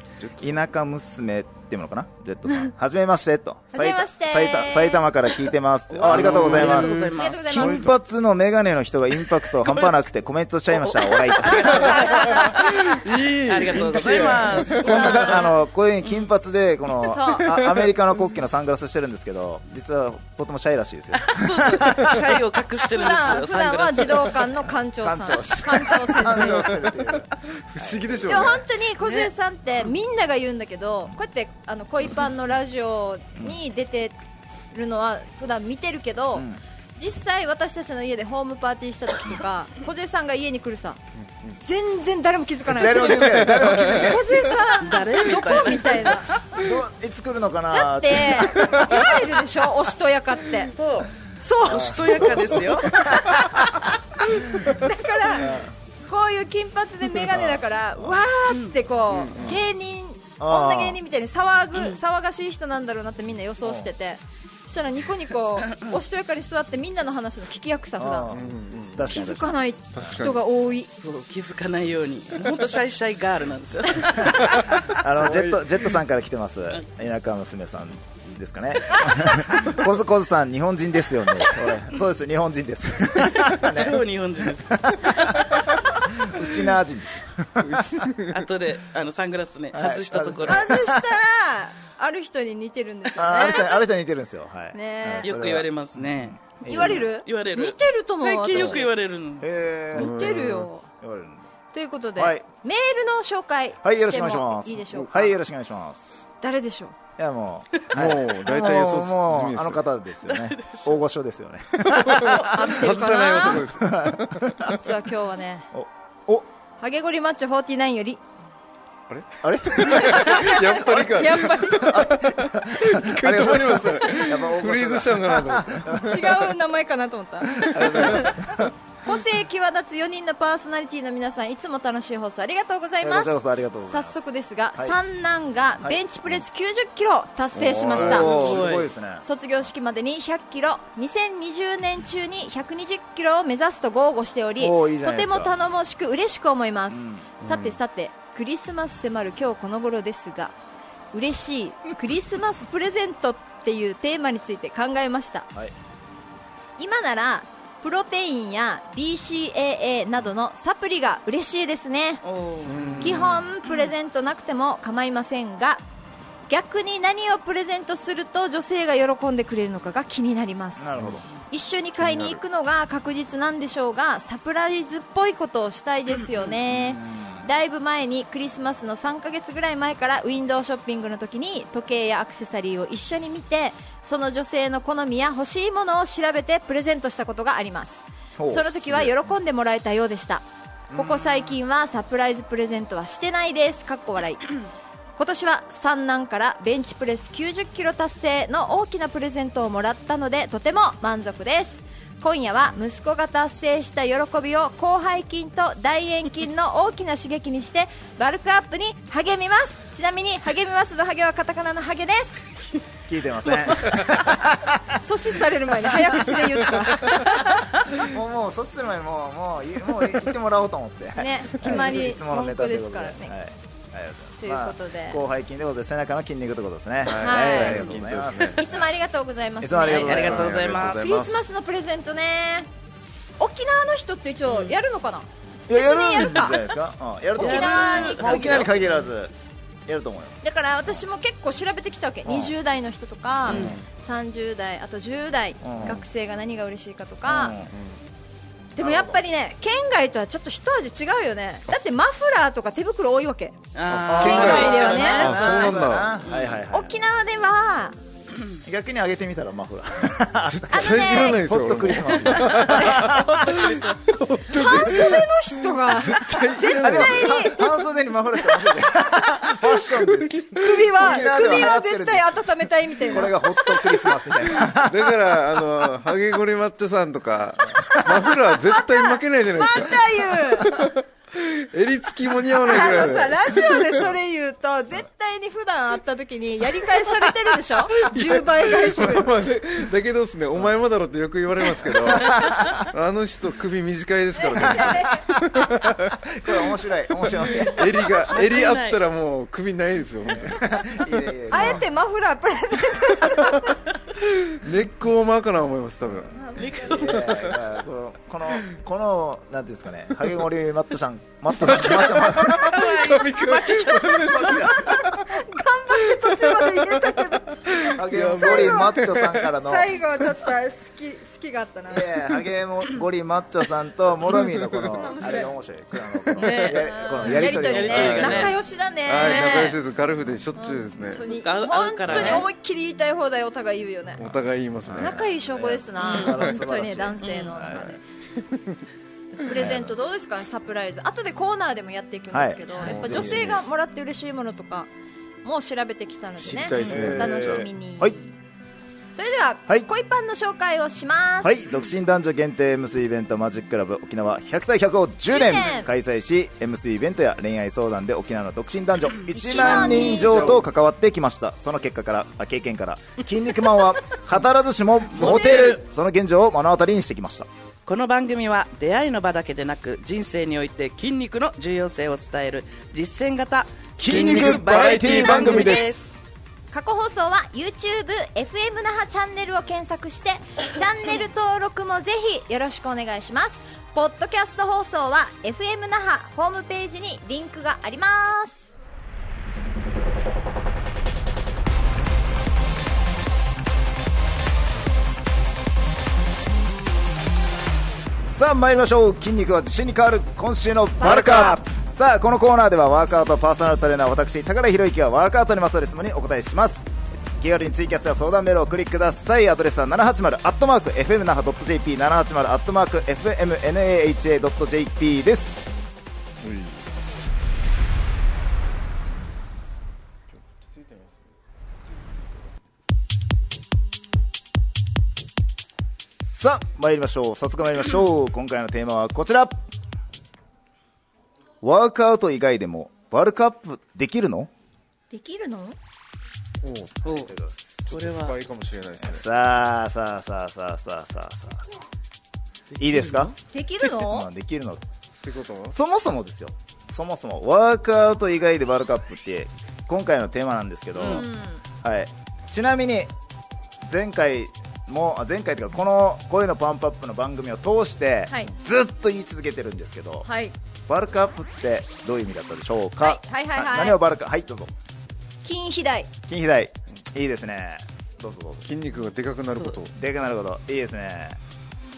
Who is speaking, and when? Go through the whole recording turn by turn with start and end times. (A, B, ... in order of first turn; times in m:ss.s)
0:00.4-0:12.3 A
0:03.7-0:05.1 B
0:05.9-0:07.4 C
0:06.0-0:07.9 D
0:06.8-0:08.0 B
0:11.1-0:12.6 C
0:11.5-0:12.5 B
0:11.9-0:15.1 D
0:13.5-0:15.4 C
0:14.8-0:22.4 A
0:14.8-0:15.6 B
0:17.0-0:17.5 B
0:17.5-0:17.9 D
0:21.3-0:24.5 C
0:22.9-0:26.7 B
0:25.0-0:28.6 A
0:26.4-0:28.6 D
0:28.3-0:34.2 B
0:29.0-0:29.3 C
0:34.7-0:41.0 B
0:36.3-0:36.6 A
0:41.2-0:41.5 D
0:41.6-0:46.4 B
0:42.6-0:44.6 A
0:43.2-0:44.0 D
0:44.8-0:46.2 C
0:46.5-0:49.2 A
0:47.7-0:50.7 B
0:50.8-0:51.1 C
0:51.4-0:53.4 B
0:51.6-0:53.1 C
0:51.7-0:53.8 A
0:54.4-0:55.7 A
0:54.6-1:08.3 B
0:57.2-0:58.2 A
0:59.1-0:59.6 D
1:00.4-1:01.0 A
1:03.6-1:03.9 A
1:08.0-1:10.0 A
1:08.3-1:09.1 D
1:09.0-1:10.9 B
1:09.9-1:10.4 D
1:11.0-1:14.8 C
1:14.4-1:15.6 D
1:14.9-1:28.1 A
1:23.2-1:25.6 C
1:27.6-1:28.4 D
1:28.3-1:30.7 C
1:29.7-1:31.1 A
1:30.5-1:33.8 B
1:33.1-1:35.7 A
1:34.7-1:35.4 B
1:35.2-1:39.5 C
1:36.2-1:37.1 A
1:36.6-1:38.9 B
1:39.4-1:40.4 A
1:39.9-1:40.7 D
1:39.9-1:40.8 B
1:40.9-1:41.4 A
1:41.7-1:45.3 B
1:42.2-1:42.4 A
1:43.8-1:46.2 A
1:46.4-1:46.9 B
1:47.2-1:52.7 A
1:47.9-1:49.8 D
1:50.2-1:51.0 C
1:52.0-1:54.8 D
1:52.5-1:53.7 B
1:53.7-1:54.8 A
1:54.8-1:55.7 B
1:55.7-1:56.4 A
1:56.8-1:58.2 B
1:59.1-2:06.0 D
1:59.4-2:00.5 A
1:59.8-2:02.1 B
2:01.7-2:06.5 A
2:05.9-2:08.4 B
2:07.6-2:08.7 A
2:07.8-2:08.3 D
2:09.0-2:30.5 B
2:13.0-2:15.0 A
2:17.6-2:19.2 A
2:17.7-2:18.2 D
2:18.0-2:18.9 C
2:24.6-2:25.5 A
2:26.9-2:27.3 A
2:27.4-2:27.8 D
2:31.1-2:35.5 B
2:36.8-2:42.2 B
2:42.2-2:43.0 C
2:42.6-2:43.5 D
2:43.0-2:45.8 B
2:46.5-2:50.9 B
2:50.8-2:51.2 A
2:51.5-3:14.5 B
2:52.0-2:52.4 D
2:56.7-2:57.4 A
3:08.4-3:09.1 A
3:10.9-3:11.6 A
3:15.2-3:32.4 B
3:33.1-3:34.8 A
3:34.9-3:37.7 B
3:38.0-3:48.6 A
3:41.2-3:43.3 B
3:44.4-3:45.2 B
3:47.0-3:48.7 D
3:47.2-3:47.9 B
3:48.5-3:50.4 B
3:49.6-3:50.8 A
3:49.8-3:51.0 C
3:50.1-3:51.5 D
3:51.0-3:52.7 B
3:53.4-3:56.6 B
3:54.5-3:54.7 C
3:55.7-3:59.3 A
3:57.3-3:58.7 B
3:57.4-3:58.8 C
3:59.9-4:01.0 A
4:00.4-4:07.6 B
4:02.2-4:02.5 A
4:03.5-4:03.8 C
4:03.5-4:03.8 D
4:05.6-4:06.0 A
4:07.3-4:07.7 A
4:08.7-4:13.6 B
4:08.8-4:09.2 A
4:13.7-4:16.6 C
4:13.9-4:16.2 D
4:14.1-4:17.0 A
4:14.2-4:15.7 B
4:16.7-4:18.0 B
4:18.6-4:23.6 A
4:20.5-4:27.6 D
4:20.7-4:21.4 B
4:22.5-4:23.1 B
4:22.7-4:24.0 C
4:24.5-4:27.7 B
4:26.6-4:32.4 A
4:29.9-4:30.9 D
4:30.6-4:33.8 B
4:33.0-4:35.2 A
4:34.8-4:44.1 D
4:37.7-4:40.9 B
4:42.6-4:49.3 B
4:48.0-4:56.2 D
4:52.2-4:52.8 A
4:54.4-4:55.2 B
4:56.1-4:57.8 A
4:57.6-5:00.6 D
4:57.6-4:59.0 C
5:00.3-5:01.9 A
5:01.5-5:03.8 B
5:03.2-5:06.4 D
5:06.3-5:06.8 B
5:06.6-5:07.4 C
5:06.8-5:12.8 A
5:07.2-5:07.6 D
5:11.6-5:15.3 D
5:12.0-5:14.6 C
5:14.0-5:15.1 A
5:14.5-5:22.1 B
5:16.0-5:19.5 D
5:17.9-5:20.0 A
5:21.9-5:28.4 A
5:25.0-5:25.5 B
5:26.4-5:28.6 C
5:26.4-5:29.8 B
5:27.8-5:31.2 D
5:30.5-5:34.2 B
5:31.2-5:32.5 C
5:32.1-5:32.4 D
5:34.2-5:35.3 D
5:34.9-5:37.9 A
5:34.9-5:38.0 B
5:36.0-5:36.6 C
5:37.2-5:37.6 C
5:38.4-5:38.7 D
5:39.4-5:44.9 B
5:39.5-5:40.0 A
5:42.3-5:43.6 A
5:42.8-5:43.2 C
5:45.4-5:48.3 B
5:46.4-5:47.6 D
5:46.8-5:48.2 A
5:49.1-5:51.6 B
5:51.4-6:07.5 A
5:55.3-5:55.9 B
5:59.4-6:00.6 B
5:59.6-6:00.4 C
6:05.1-6:05.8 C
6:07.8-6:16.1 C
6:14.0-6:16.0 A
6:14.1-6:15.5 D
6:15.2-6:15.9 B
6:16.7-6:28.7 B
6:38.2-6:55.6 A
6:41.0-6:41.6 B
6:56.4-6:56.8 D
7:00.3-7:01.2 D
7:06.3-7:09.6 A
7:11.6-7:14.5 A
7:15.1-7:15.8 B
7:16.6-7:17.0 D
7:17.0-7:17.3 C
7:17.1-7:17.8 A
7:17.9-7:18.3 C
7:17.9-7:19.2 D
7:19.0-7:21.6 A
7:22.7-7:23.3 C
7:22.8-7:23.3 A
7:23.5-7:24.3 B
7:23.9-7:24.8 A
7:25.2-7:25.8 D
7:25.7-7:31.3 A
7:31.0-7:31.2 C
7:31.0-7:31.6 B
7:31.8-7:33.1 A
7:33.8-7:40.3 A
7:40.2-7:40.5 B
7:40.9-7:44.7 A
7:43.0-7:44.0 B
7:45.4-7:46.1 B
7:46.3-7:48.6 A
7:48.6-7:49.9 D
7:50.0-7:51.4 A